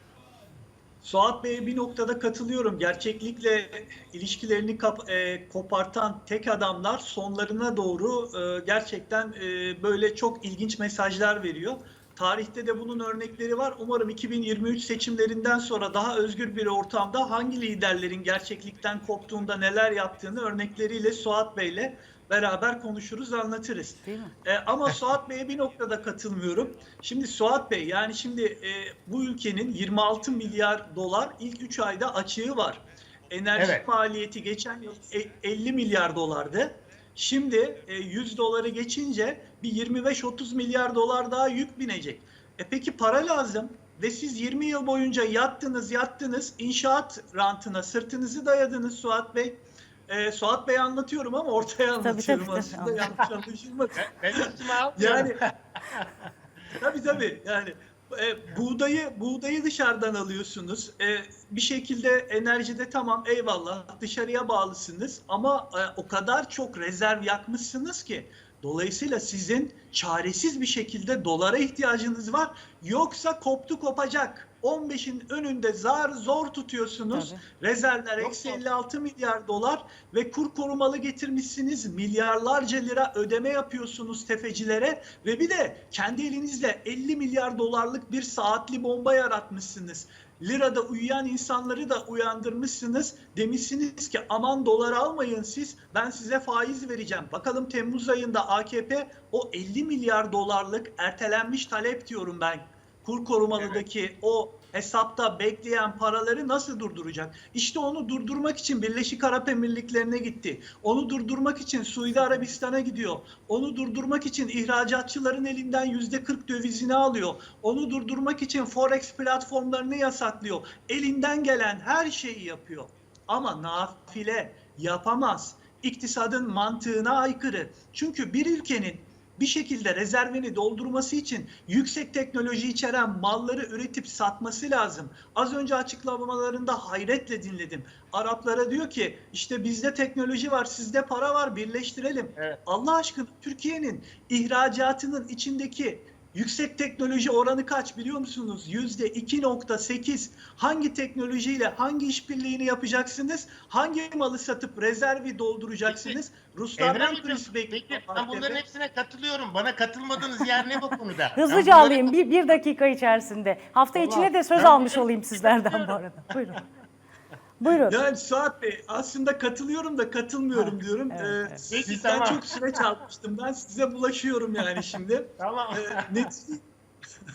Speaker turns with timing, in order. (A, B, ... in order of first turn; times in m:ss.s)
0:01.0-0:55.4 A
0:24.0-0:24.3 B
0:33.6-0:33.8 C
0:52.0-0:53.1 B
0:54.0-0:56.1 C
0:56.8-2:38.6 A
1:17.1-1:17.4 B
1:18.2-1:18.6 C
1:52.2-1:52.4 B
2:35.9-2:36.2 C
2:36.8-2:42.1 C
2:41.4-2:46.6 B
2:43.9-2:46.0 C
2:47.6-2:48.0 B
2:47.9-2:56.6 A
2:50.5-2:51.6 B
2:51.7-2:52.8 C
2:55.4-2:56.3 C